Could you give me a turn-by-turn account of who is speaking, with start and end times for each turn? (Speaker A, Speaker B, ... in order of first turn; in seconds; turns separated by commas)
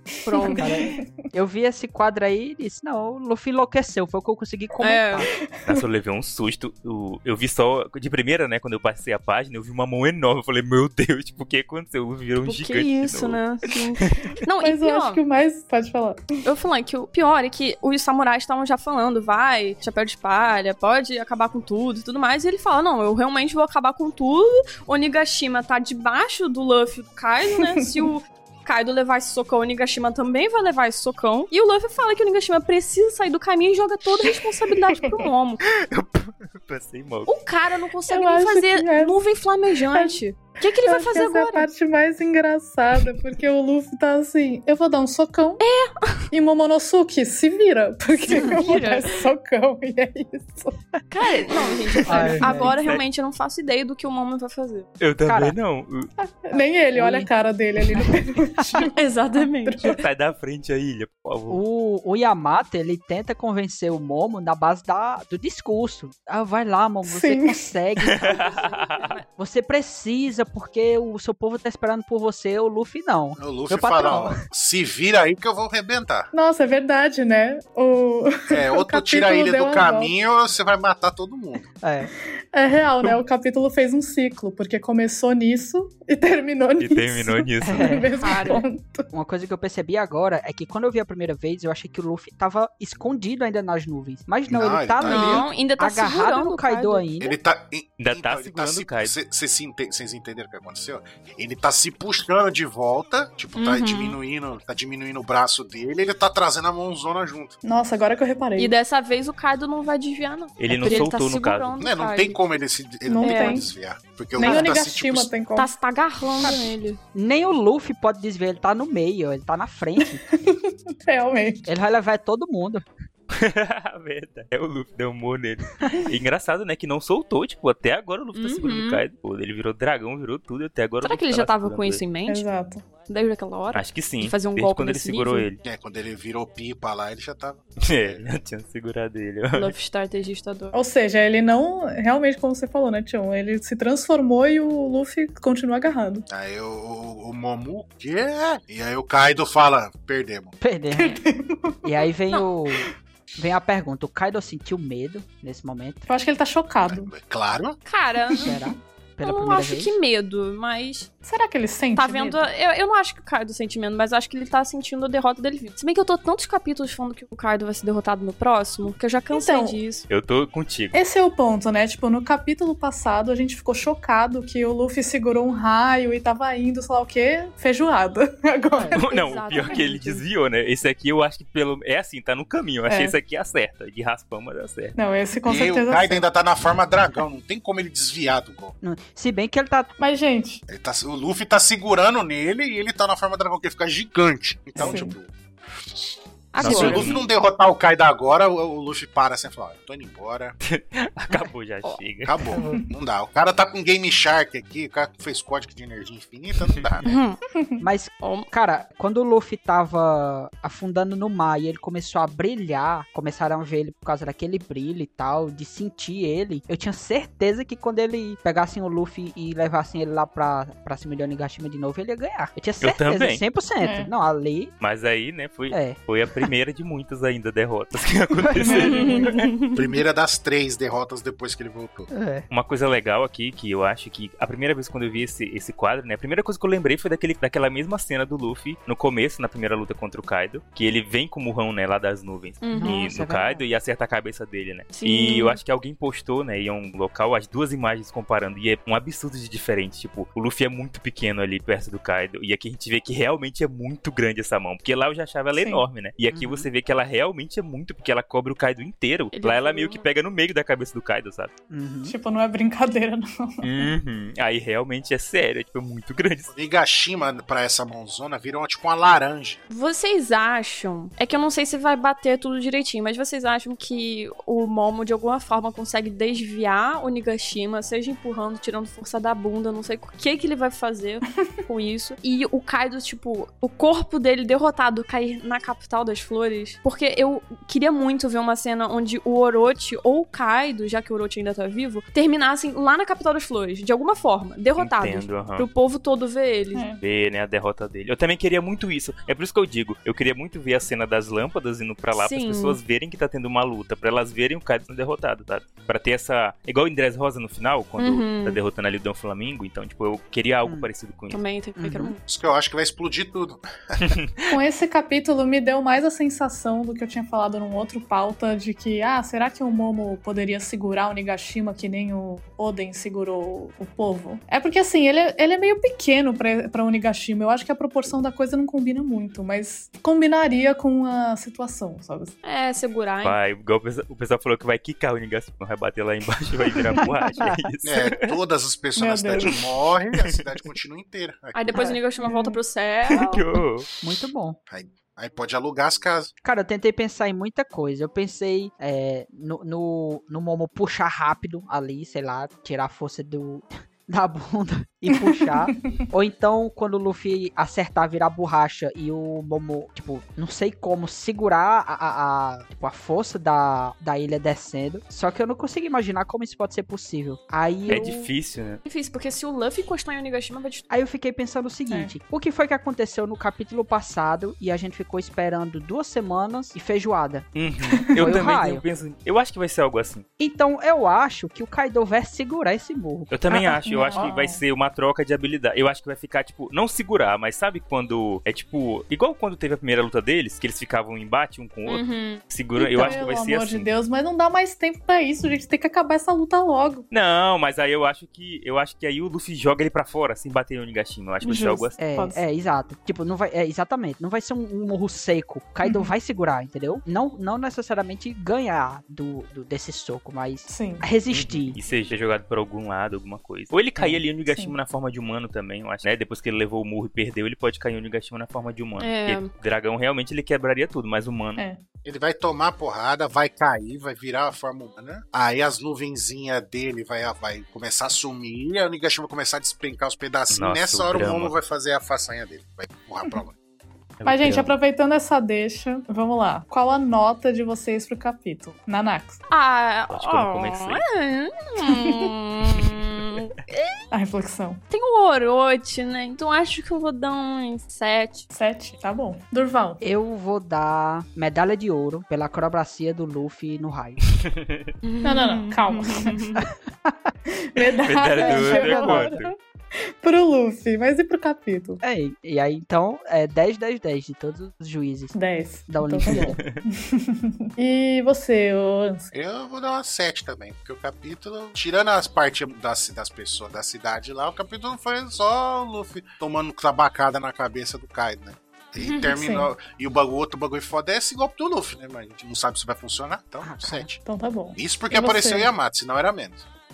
Speaker A: 0.2-0.7, Speaker B: 0.3-1.0, Speaker C: 0.6-5.3, Speaker A: 4.8-5.2, Speaker D: 5.6-13.4, Speaker A: 12.4-15.2, Speaker D: 14.0-14.3, Speaker B: 14.6-16.2, Speaker A: 16.4-35.6, Speaker B: 27.8-28.1, Speaker D: 35.6-37.4, Speaker A: 37.2-41.7, Speaker B: 38.1-39.2, Speaker B: 39.9-45.6, Speaker A: 45.6-46.2, Speaker B: 46.3-50.8, Speaker A: 48.4-49.2, Speaker A: 51.1-54.9, Speaker D: 51.9-53.0, Speaker C: 52.0-52.8, Speaker D: 55.0-56.1, Speaker C: 55.2-55.5, Speaker B: 56.3-60.0, Speaker C: 56.9-57.3, Speaker C: 57.9-58.7, Speaker A: 58.7-60.0, Speaker D: 59.8-61.6, Speaker C: 61.5-68.6, Speaker B: 67.0-67.7, Speaker D: 68.1-69.1, Speaker A: 68.3-69.2, Speaker C: 69.4-74.4, Speaker E: 73.4-76.3, Speaker B: 76.3-80.1, Speaker E: 78.5-81.7, Speaker C: 81.8-82.1, Speaker B: 82.5-89.1, Speaker D: 86.8-87.9, Speaker C: 87.6-97.3, Speaker A: 88.2-88.6, Speaker E: 94.5-95.5, Speaker A: 95.0-97.1, Speaker E: 97.2-107.6, Speaker D: 98.0-99.1, Speaker A: 103.5-104.2, Speaker B: 107.6-108.7, Speaker A: 108.5-112.4, Speaker D: 110.6-111.8, Speaker C: 110.8-111.1, Speaker E: 111.8-115.4, Speaker B: 113.0-113.7, Speaker A: 113.2-113.6, Speaker B: 114.4-115.7, Speaker A: 114.4-114.7, Speaker A: 115.5-117.0, Speaker C: 116.4-120.2, Speaker B: 120.3-121.7, Speaker C: 121.6-122.8, Speaker D: 123.3-132.0, Speaker A: 128.3-129.0, Speaker A: 131.0-132.4, Speaker B: 132.3-132.8, Speaker A: 133.1-135.5, Speaker D: 133.7-135.6, Speaker E: 135.6-138.2, Speaker D: 137.8-139.7, Speaker A: 139.5-140.7, Speaker B: 140.7-146.3, Speaker E: 146.3-150.6, Speaker C: 150.6-151.2, Speaker B: 151.0-151.8, Speaker C: 151.8-156.0, Speaker B: 156.1-157.1, Speaker E: 156.8-157.8, Speaker A: 157.8-158.6, Speaker B: 158.3-158.7, Speaker C: 158.4-159.9, Speaker A: 159.2-161.1, Speaker B: 161.2-162.5, Speaker A: 161.9-170.1, Speaker B: 169.3-169.8, Speaker D: 170.1-170.9, Speaker B: 170.9-179.0, Speaker A: 178.9-180.2, Speaker D: 179.0-184.9, Speaker B: 182.9-183.2, Speaker B: 184.9-186.2, Speaker E: 185.4-188.7, Speaker C: 188.8-189.9, Speaker B: 190.0-190.6, Speaker E: 190.7-200.6, Speaker C: 194.8-195.0, Speaker B: 194.8-195.1, Speaker A: 196.5-197.2, Speaker D: 196.6-197.2, Speaker D: 200.6-202.3, Speaker E: 202.2-207.1, Speaker C: 202.5-202.8, Speaker D: 206.6-206.9, Speaker A: 207.0-207.4, Speaker B: 207.6-207.8, Speaker C: 207.8-224.7, Speaker A: 208.2-208.5, Speaker D: 222.8-223.4, Speaker B: 223.8-224.1, Speaker D: 224.8-229.5, Speaker C: 225.7-226.5, Speaker C: 228.3-229.2, Speaker B: 228.6-229.4, Speaker A: 228.7-229.8, Speaker E: 229.7-232.1, Speaker C: 232.1-232.5, Speaker D: 232.5-261.5, Speaker A: 242.6-243.1, Speaker C: 242.7-243.6, Speaker A: 244.9-245.6, Speaker B: 255.5-255.8, Speaker C: 256.3-256.7, Speaker A: 259.3-260.1, Speaker C: 261.7-262.1, Speaker B: 262.0-263.9, Speaker D: 263.6-266.5, Speaker E: 266.5-269.6, Speaker A: 269.7-296.9, Speaker D: 294.8-295.7, Speaker B: 296.7-297.0, Speaker D: 297.0-311.4, Speaker A: 302.1-302.8, Speaker A: 308.0-308.6, Speaker C: 310.6-310.9, Speaker A: 311.3-312.2, Speaker C: 311.8-312.1, Speaker E: 312.3-314.1, Speaker D: 314.1-314.4, Speaker B: 314.5-332.3, Speaker A: 332.4-333.4, Speaker D: 333.2-338.3, Speaker C: 336.9-337.7, Speaker E: 337.8-341.9, Speaker B: 338.9-339.5, Speaker A: 341.5-343.4, Speaker B: 342.2-342.6, Speaker D: 343.1-343.9, Speaker C: 344.0-344.6, Speaker E: 344.7-346.3, Speaker C: 346.4-368.2, Speaker B: 355.3-356.0, Speaker D: 367.9-368.8, Speaker A: 368.8-370.9, Speaker C: 370.9-377.5, Speaker B: 371.9-372.1, Speaker D: 377.5-380.2, Speaker C: 378.1-378.8, Speaker C: 380.4-384.3, Speaker D: 383.3-393.9, Speaker B: 383.5-384.6, Speaker A: 391.9-392.4, Speaker B: 392.8-397.0, Speaker D: 397.1-402.0, Speaker B: 401.4-402.4, Speaker C: 402.0-411.8, Speaker B: 405.8-406.1, Speaker B: 410.7-411.0, Speaker D: 411.3-421.6, Speaker C: 414.0-414.2, Speaker B: 414.5-414.8, Speaker A: 419.0-419.5, Speaker E: 422.0-433.5, Speaker D: 430.5-431.5, Speaker D: 434.2-434.8, Speaker B: 434.2-439.4, Speaker A: 439.5-444.0, Speaker D: 440.1-441.0, Speaker B: 441.8-442.3, Speaker B: 444.1-444.8, Speaker A: 444.9-448.5, Speaker B: 448.5-450.0, Speaker C: 450.0-454.2, Speaker D: 454.3-454.9, Speaker A: 455.0-456.6, Speaker B: 455.2-456.4, Speaker C: 457.0-457.3, Speaker B: 457.6-459.5, Speaker D: 458.0-459.5, Speaker C: 458.4-459.4, Speaker B: 460.2-462.0, Speaker C: 462.0-465.3, Speaker B: 465.3-469.3, Speaker C: 465.9-466.6, Speaker D: 466.2-466.8, Speaker E: 469.3-484.2, Speaker A: 479.0-479.3, Speaker B: 479.3-479.7, Speaker C: 483.6-484.1, Speaker B: 484.2-485.7, Speaker E: 484.8-486.6